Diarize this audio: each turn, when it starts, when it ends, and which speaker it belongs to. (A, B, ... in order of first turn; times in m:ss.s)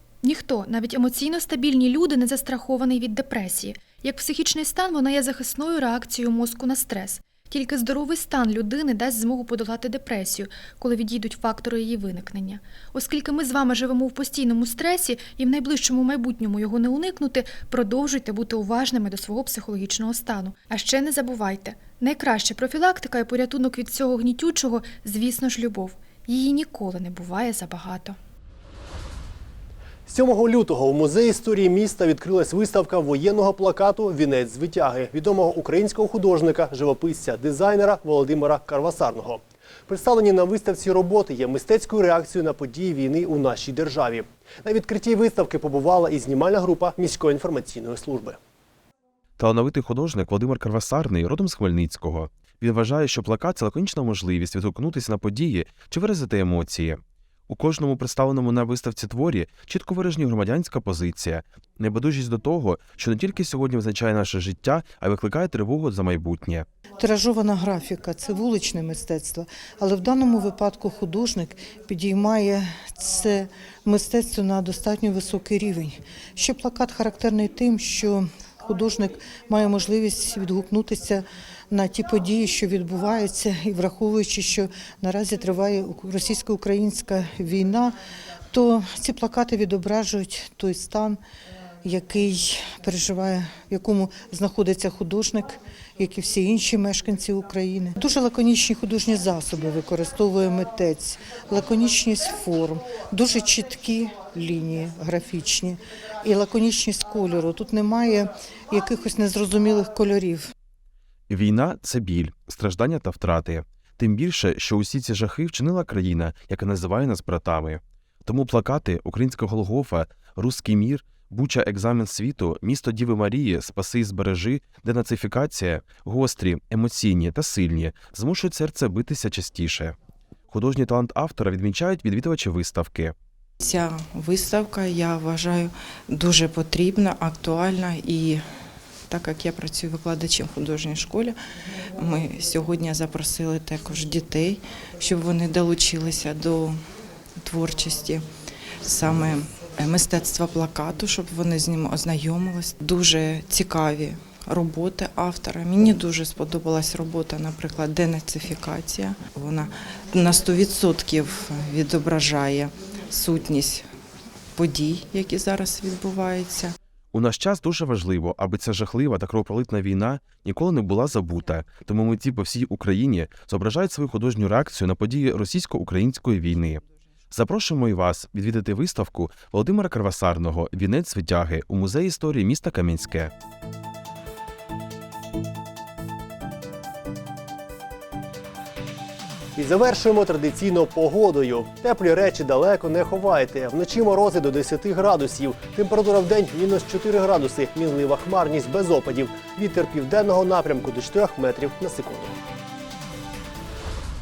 0:00.2-0:28.2 A
0:30.1-0:48.4 B
0:49.4-1:06.7 C
1:07.0-1:28.0 D
1:28.5-1:31.2 D
1:31.8-1:50.5 D
1:51.3-2:10.0 C
2:10.5-2:13.1 C
2:13.6-2:18.4 E
2:19.1-2:21.4 E
2:22.0-2:26.8 E
2:27.4-2:28.2 E
2:28.8-2:43.9 E
2:44.6-2:46.8 E
2:47.1-3:03.3 C
3:09.6-3:22.4 B